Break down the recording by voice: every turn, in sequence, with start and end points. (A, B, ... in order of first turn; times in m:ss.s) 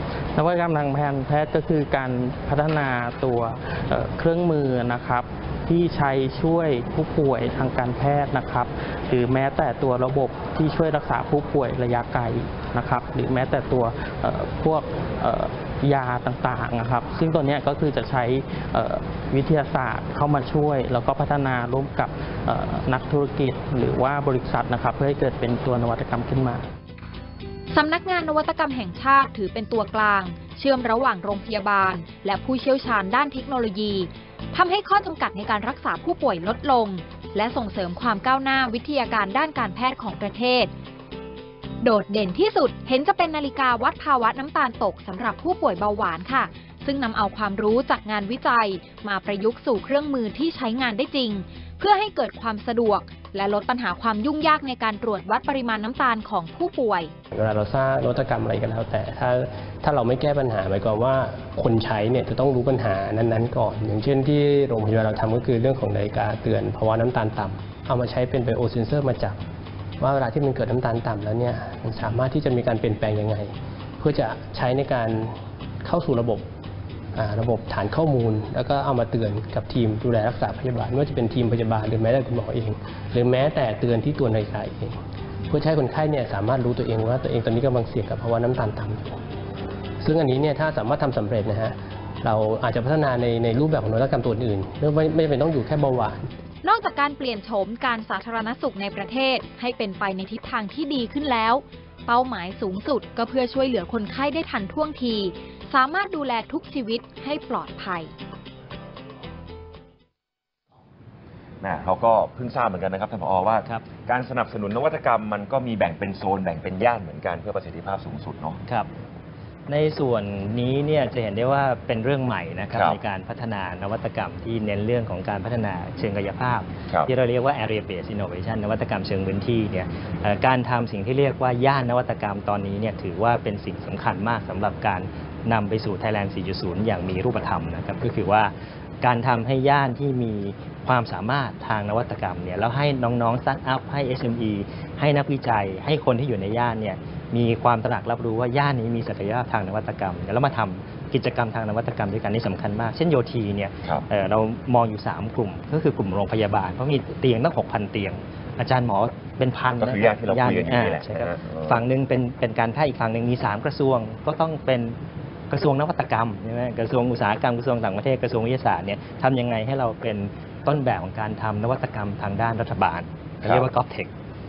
0:00.4-0:26.6 A
0:27.7-0:40.7 B
0:41.8-0:57.1 B
0:57.3-1:09.4 C
1:10.0-1:16.4 C
1:17.2-1:24.9 C
1:25.5-1:29.1 C
1:30.0-1:36.2 C
1:36.6-1:48.1 B
1:51.6-1:58.6 D
1:59.7-2:45.0 E
2:02.7-2:03.0 D
2:39.8-2:41.8 D
2:45.5-2:54.1 E
2:53.4-2:53.7 D